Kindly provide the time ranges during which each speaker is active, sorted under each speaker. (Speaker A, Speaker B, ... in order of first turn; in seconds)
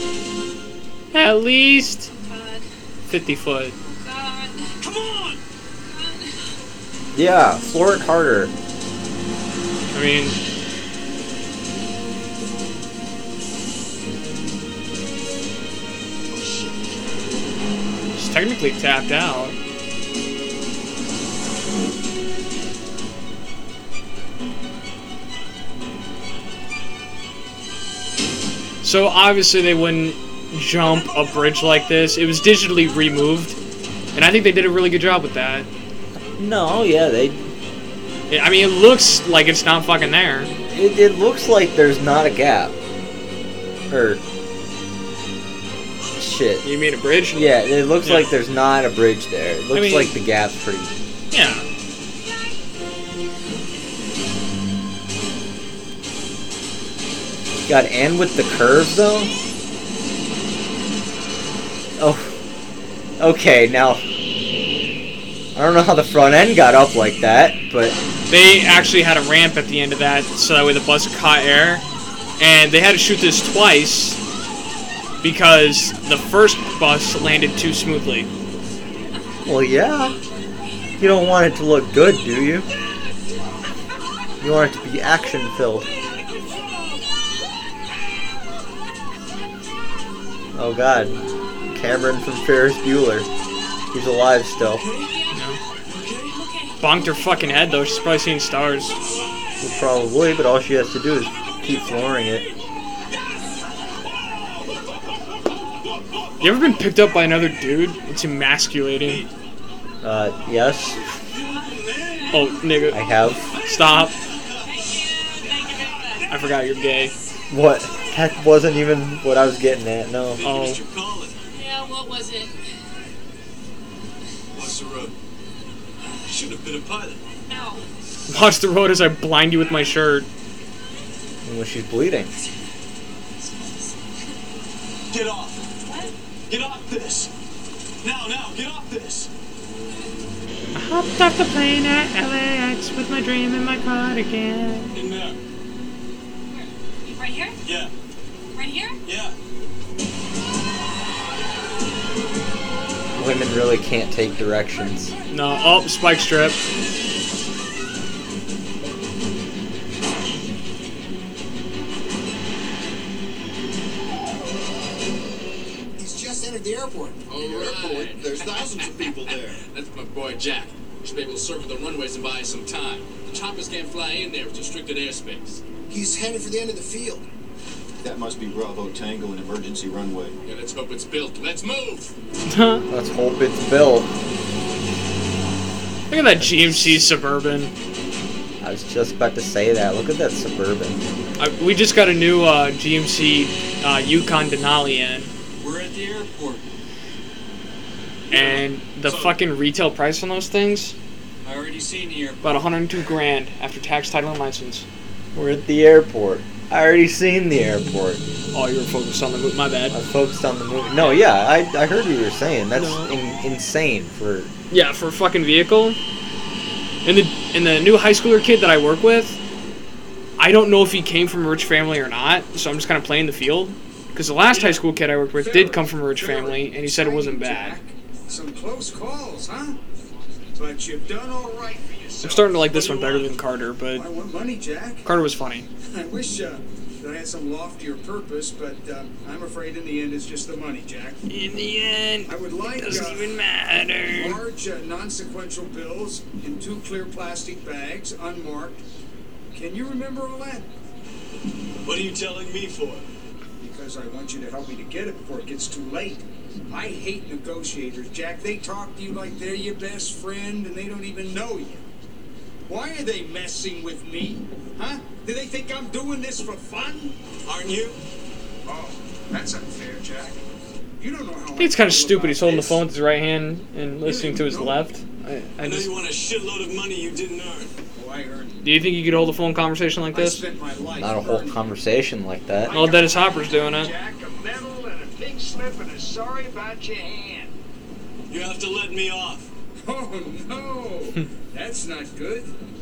Speaker A: 1.1-2.1, 3.1-3.8, 9.9-10.4, 18.2-19.6, 28.8-33.6, 34.1-35.7, 38.3-40.5, 46.6-48.4, 49.7-50.1, 51.3-51.6, 68.3-71.8, 72.4-74.2, 75.2-78.3, 95.3-95.6, 96.8-99.0, 106.4-109.2, 112.3-113.0, 113.6-114.2, 116.3-117.1, 120.4-120.8, 128.3-130.3, 140.8-144.9, 155.3-156.6, 182.5-182.8, 186.1-187.7, 191.4-195.3, 198.3-201.0, 202.4-204.9, 208.5-210.0, 210.9-211.2, 212.8-213.2, 214.7-216.0, 217.1-219.4, 220.4-227.8, 232.2-234.1, 235.0-235.7, 241.3-244.4, 271.6-275.9, 278.6-280.4, 282.7-283.9
Speaker B: 2.1-2.7, 3.8-4.8, 5.8-6.5, 95.0-95.5, 96.2-96.8, 111.5-112.5, 114.6-116.4, 121.5-122.6, 127.4-127.8, 133.4-134.1, 135.8-136.2, 146.5-147.6, 148.5-149.0, 155.3-155.6
Speaker C: 4.8-5.4, 30.8-32.2, 94.7-95.1, 95.9-96.4, 99.1-99.6, 101.2-102.6, 103.1-104.8, 109.0-109.3, 111.3-112.8, 113.8-114.7, 120.4-121.4, 124.5-125.1, 126.3-127.2, 135.1-135.7, 136.5-137.3, 138.0-139.3, 144.9-145.4, 147.6-147.9, 149.1-149.3, 232.7-233.3, 251.8-253.1, 267.4-268.0, 275.6-277.8, 288.3-289.5
Speaker D: 7.1-8.5, 36.2-37.4, 40.7-42.8, 43.9-44.2, 46.2-46.6, 47.3-50.9, 57.7-59.3, 62.0-62.4, 63.2-64.0, 65.5-68.0, 79.5-80.2, 81.0-82.7, 84.4-85.9, 90.5-93.3, 93.9-94.8, 99.6-102.5, 110.0-111.0, 112.9-113.4, 117.5-120.4, 131.4-132.3, 153.2-155.1, 182.9-184.1, 186.4-187.1, 188.6-191.0, 205.3-208.2, 209.9-214.5, 281.0-282.9
Speaker E: 166.0-167.2, 224.5-224.8, 225.3-229.8, 230.6-232.7, 233.9-235.1, 235.8-241.2, 242.3-243.4, 244.1-248.8, 249.5-250.7, 253.6-261.9, 262.7-267.2, 268.6-270.4, 271.0-272.8, 274.0-274.9, 277.9-278.6, 280.1-281.7, 282.6-287.6, 289.8-292.5
Speaker F: 167.3-169.6, 175.9-177.3, 178.0-180.4
Speaker G: 167.3-175.6, 180.4-182.1
Speaker H: 195.6-196.7, 198.3-199.4, 201.4-202.8